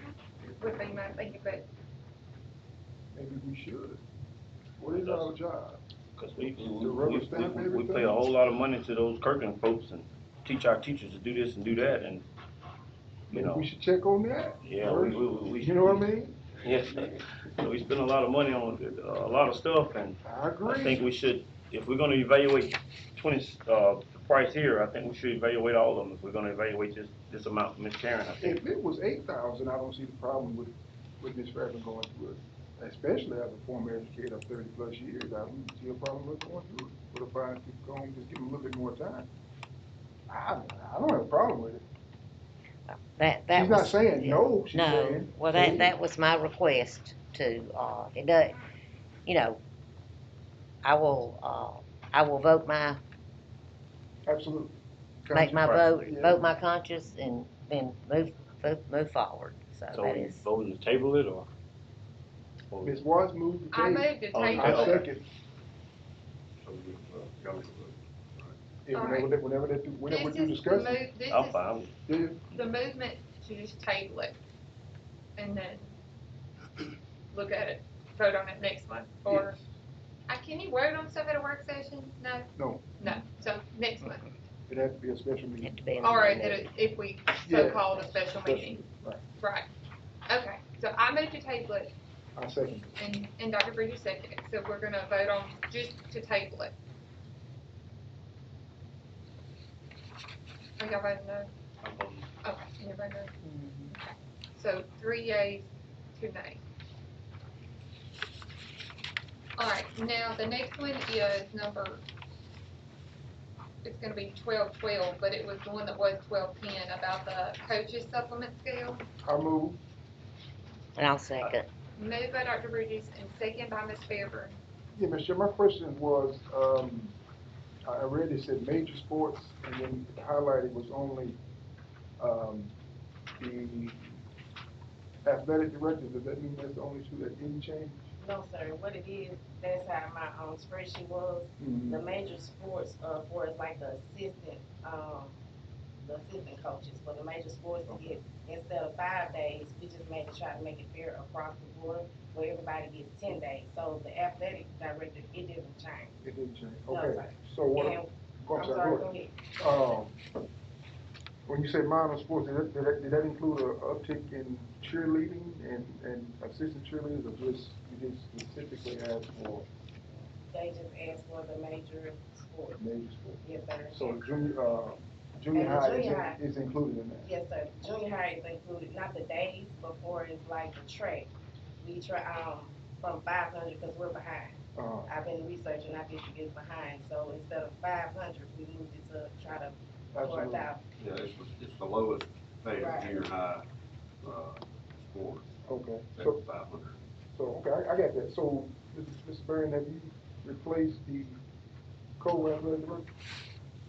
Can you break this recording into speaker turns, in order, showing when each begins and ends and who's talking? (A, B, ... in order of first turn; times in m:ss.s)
0:00.4-0:01.6 A
0:03.1-0:04.0 B
0:04.8-0:05.8 B
0:04.9-0:05.3 C
0:06.2-0:12.2 C
0:06.7-0:08.3 B
0:13.3-0:13.7 C
0:13.3-0:16.6 B
0:14.6-0:16.1 C
0:16.6-0:28.6 C
0:20.2-0:21.0 B
0:28.4-0:39.3 B
0:40.3-0:41.8 B
0:42.9-0:48.6 D
0:43.5-0:45.9 B
0:49.3-0:49.6 D
0:50.8-0:53.0 D
0:54.3-0:56.5 B
0:55.3-1:00.4 D
0:55.5-0:56.0 C
0:59.9-1:01.5 C
1:02.7-1:03.0 C
1:02.8-1:05.3 B
1:03.7-1:05.0 A
1:04.3-1:05.0 C
1:06.6-1:08.6 E
1:08.8-1:11.0 B
1:08.9-1:09.3 A
1:10.1-1:11.6 A
1:11.3-1:11.9 C
1:12.1-1:12.4 B
1:12.5-1:14.4 A
1:15.4-1:15.9 A
1:17.3-1:19.6 A
1:19.3-1:19.6 B
1:20.3-1:22.5 A
1:22.6-1:23.0 B
1:23.0-1:24.3 A
1:24.7-1:25.8 B
1:25.6-1:26.7 D
1:26.0-1:28.8 A
1:27.4-1:29.2 B
1:29.4-1:29.6 A
1:30.3-1:31.9 A
1:32.4-1:33.0 B
1:33.0-1:36.7 A
1:40.8-1:41.5 A
1:41.8-1:42.3 C
1:42.4-1:43.3 A
1:43.4-1:43.9 D
1:43.9-1:46.6 A
1:49.6-1:52.0 A
1:53.8-1:59.0 A
1:59.2-1:59.8 B
2:01.0-2:01.7 D
2:02.0-2:04.6 A
2:04.9-2:07.2 B
2:07.9-2:11.4 B
2:12.2-2:12.7 B
2:13.4-2:14.2 B
2:15.2-2:18.1 B
2:18.2-2:25.3 F
2:21.6-2:22.0 B
2:26.0-2:36.1 F
2:27.9-2:28.3 B
2:36.2-2:40.2 B
2:36.9-2:39.4 F
2:41.5-2:49.7 B
2:50.5-2:52.8 F
2:52.8-2:57.3 B
2:53.4-2:54.2 F
2:55.5-2:56.4 F
2:57.2-3:01.3 F
3:01.8-3:04.6 F
3:04.8-3:05.1 B
3:05.1-3:10.8 F
3:10.1-3:10.7 B
3:11.0-3:13.6 E
3:12.8-3:13.2 F
3:14.2-3:17.0 E
3:15.7-3:16.4 B
3:17.3-3:21.4 B
3:22.2-3:23.1 B